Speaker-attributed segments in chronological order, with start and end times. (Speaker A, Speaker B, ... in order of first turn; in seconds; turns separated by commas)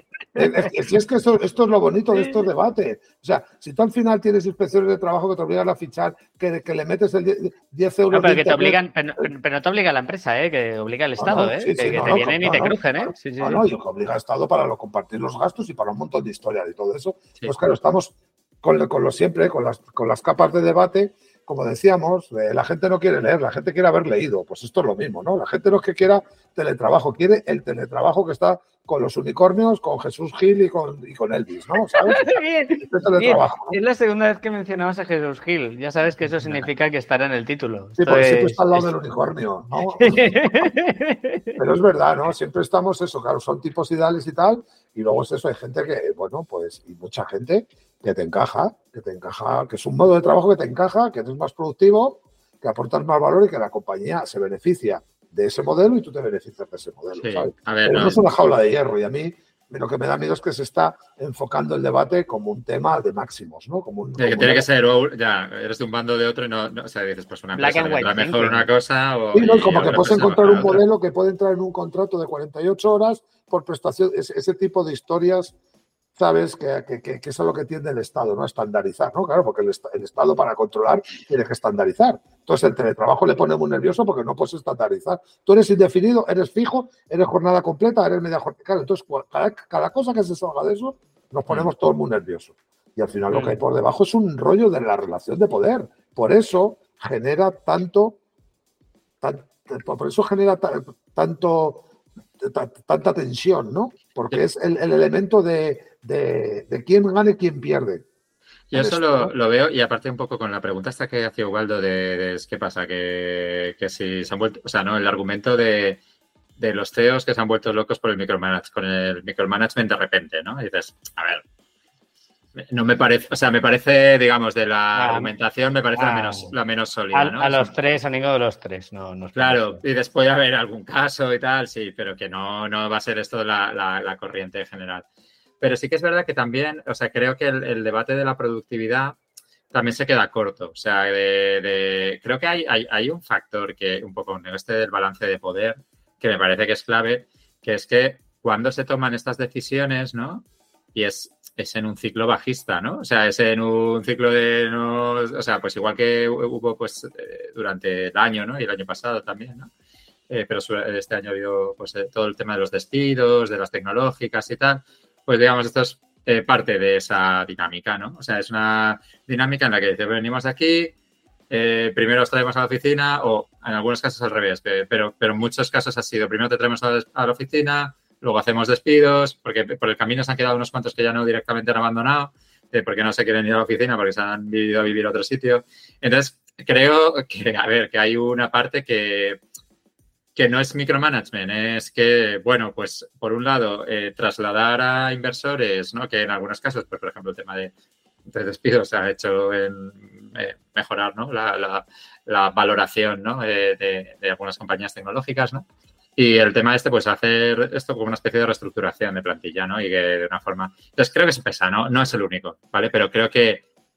Speaker A: 0.4-8.8, Speaker B: 8.1-13.7, Speaker A: 11.2-33.8, Speaker B: 32.0-38.9, Speaker A: 38.0-40.7, Speaker B: 40.0-41.6, Speaker A: 41.6-64.7, Speaker C: 57.2-58.2, Speaker C: 64.2-70.8, Speaker B: 67.5-68.7, Speaker A: 69.3-75.5, Speaker A: 76.2-98.2, Speaker A: 99.2-101.9, Speaker A: 102.4-108.0, Speaker C: 108.7-116.0, Speaker A: 108.7-109.3, Speaker C: 116.6-121.4, Speaker C: 122.6-127.7, Speaker B: 125.0-125.3, Speaker B: 126.0-126.5, Speaker B: 127.1-129.8, Speaker C: 129.3-135.1, Speaker C: 135.6-139.2, Speaker C: 139.7-159.7, Speaker C: 160.3-170.9, Speaker C: 171.5-189.4, Speaker C: 190.3-197.7, Speaker C: 198.3-205.7, Speaker C: 206.2-213.6